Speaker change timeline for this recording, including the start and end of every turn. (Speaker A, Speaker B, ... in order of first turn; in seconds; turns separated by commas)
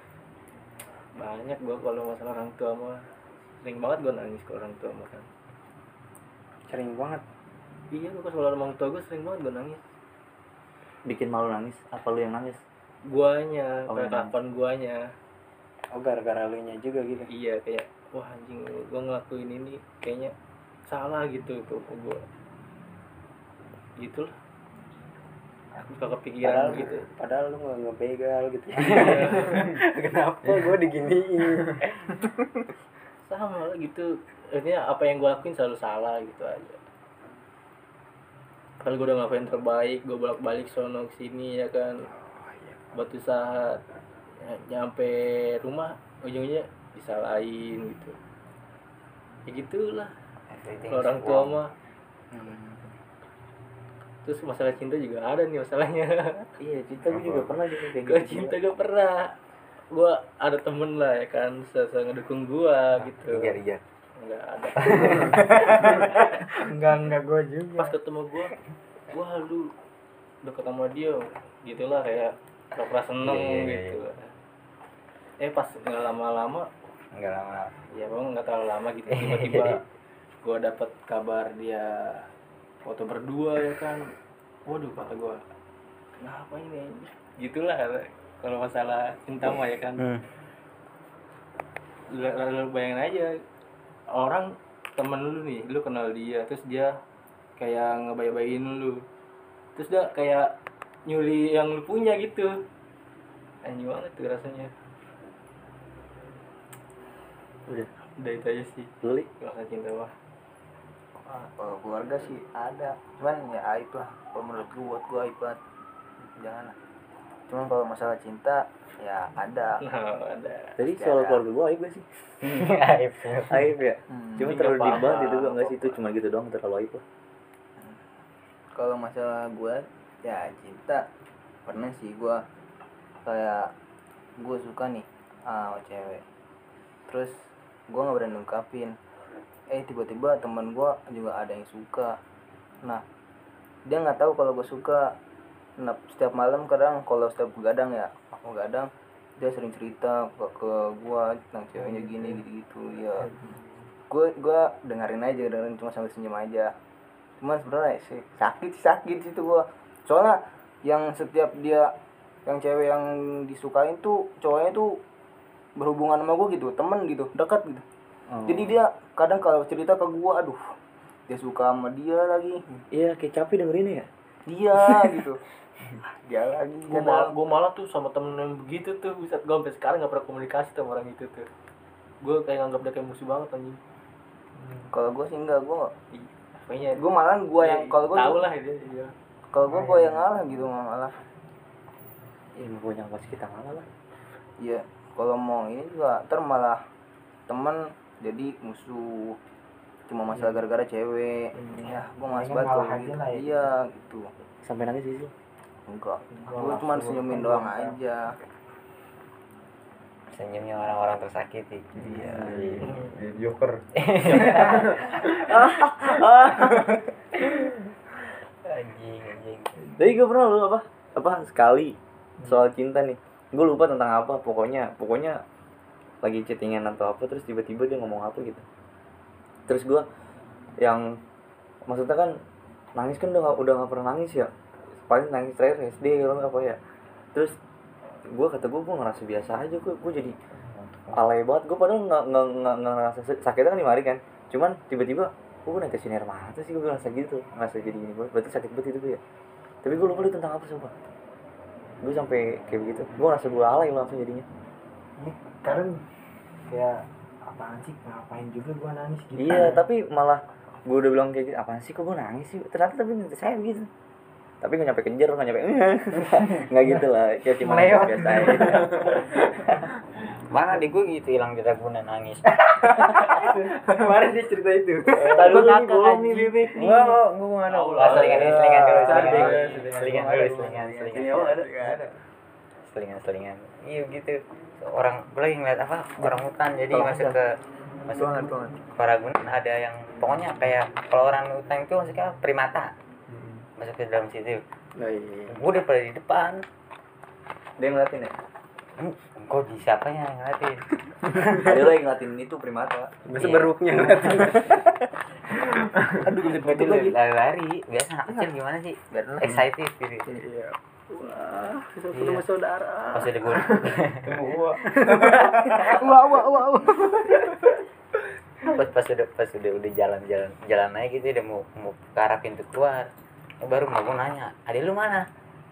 Speaker A: 1.1-3.1, Speaker A: 3.6-5.3, Speaker B: 6.7-7.2, Speaker A: 7.9-9.8, Speaker C: 11.1-12.6, Speaker A: 13.1-15.1, Speaker C: 13.9-14.3, Speaker B: 15.9-17.3, Speaker A: 17.3-20.3, Speaker A: 20.9-22.2, Speaker A: 24.0-24.3, Speaker A: 25.8-27.1, Speaker B: 26.4-31.8, Speaker A: 28.8-29.6, Speaker A: 33.2-36.8, Speaker A: 38.8-42.1, Speaker B: 42.1-42.9, Speaker A: 42.9-43.8, Speaker A: 44.4-48.2, Speaker A: 49.5-50.1, Speaker D: 50.5-51.6, Speaker A: 50.9-51.7, Speaker A: 54.2-56.5, Speaker C: 56.6-58.6, Speaker A: 57.9-59.4, Speaker A: 59.9-63.6, Speaker D: 63.3-63.8, Speaker A: 64.2-66.5, Speaker B: 66.5-68.0, Speaker A: 67.8-68.5, Speaker A: 69.1-69.7, Speaker A: 70.4-74.3, Speaker D: 73.2-74.0, Speaker A: 75.4-76.7, Speaker D: 77.2-77.7, Speaker A: 77.9-79.8, Speaker D: 79.3-79.6, Speaker A: 80.4-82.3, Speaker A: 82.8-84.1, Speaker A: 84.7-85.4, Speaker A: 86.2-90.0, Speaker D: 90.0-90.2, Speaker A: 92.1-93.3, Speaker A: 94.1-97.0, Speaker A: 97.6-99.0, Speaker A: 99.8-100.5, Speaker A: 101.1-102.6, Speaker A: 103.6-104.7, Speaker A: 108.2-110.1, Speaker C: 109.0-109.3, Speaker E: 111.2-115.6, Speaker E: 116.2-116.8, Speaker E: 117.5-119.8, Speaker A: 119.8-120.8, Speaker C: 120.8-122.2, Speaker E: 120.9-121.4, Speaker D: 122.4-123.7, Speaker C: 123.5-127.0, Speaker E: 124.1-124.5, Speaker A: 124.4-126.0, Speaker E: 128.8-131.1, Speaker E: 131.7-132.4, Speaker E: 133.2-133.7, Speaker E: 134.4-136.2, Speaker E: 137.1-139.0, Speaker E: 139.7-142.2, Speaker E: 143.9-145.1, Speaker E: 145.8-153.4, Speaker E: 154.1-156.7, Speaker E: 157.4-161.9, Speaker E: 162.5-165.0, Speaker E: 165.8-167.8, Speaker C: 168.3-168.8, Speaker E: 168.4-170.6, Speaker E: 171.3-172.8, Speaker C: 172.9-174.1, Speaker E: 174.5-175.4, Speaker E: 176.0-177.3, Speaker A: 176.9-181.5, Speaker A: 182.2-183.8, Speaker E: 184.9-185.9, Speaker A: 186.1-187.0, Speaker E: 187.0-188.4, Speaker A: 187.6-189.1, Speaker E: 189.5-191.2, Speaker C: 192.6-193.9, Speaker E: 194.6-196.8, Speaker E: 197.5-199.4, Speaker E: 200.1-204.3, Speaker B: 201.7-203.8, Speaker C: 204.6-205.3, Speaker E: 205.9-208.3, Speaker B: 206.5-208.0, Speaker D: 210.3-212.9, Speaker F: 212.0-215.5, Speaker E: 212.0-212.6, Speaker D: 214.0-215.1, Speaker C: 215.2-217.0, Speaker D: 218.7-219.8, Speaker C: 220.0-225.4, Speaker C: 226.2-228.6, Speaker C: 229.7-230.1, Speaker C: 230.8-231.1, Speaker C: 231.9-232.4, Speaker C: 233.0-236.8, Speaker C: 238.3-240.4, Speaker D: 240.7-241.2, Speaker C: 241.1-249.2, Speaker C: 249.8-250.9, Speaker C: 252.0-254.5, Speaker B: 255.2-256.1, Speaker B: 256.7-259.8, Speaker C: 259.4-263.9, Speaker C: 264.6-269.8, Speaker B: 267.6-269.1, Speaker D: 270.5-273.3, Speaker B: 273.2-276.6, Speaker C: 275.3-276.9, Speaker F: 276.7-281.1, Speaker A: 277.7-280.0, Speaker D: 278.0-281.4, Speaker E: 279.1-282.0, Speaker C: 281.1-282.0, Speaker F: 281.8-282.1, Speaker D: 282.9-287.4, Speaker E: 286.9-287.4, Speaker D: 288.1-292.9, Speaker E: 288.2-288.7, Speaker F: 293.3-293.6, Speaker D: 293.8-294.6, Speaker B: 295.0-295.6, Speaker D: 295.5-296.6, Speaker C: 297.8-298.3, Speaker D: 299.0-301.7, Speaker C: 301.4-303.1, Speaker B: 303.2-304.9, Speaker D: 303.4-303.7, Speaker E: 306.1-307.2, Speaker D: 306.5-310.3, Speaker E: 309.1-309.5, Speaker B: 310.3-313.8, Speaker D: 312.1-312.5, Speaker D: 313.1-314.3, Speaker F: 314.2-315.4, Speaker B: 314.8-317.5, Speaker D: 318.6-323.1, Speaker D: 323.6-325.3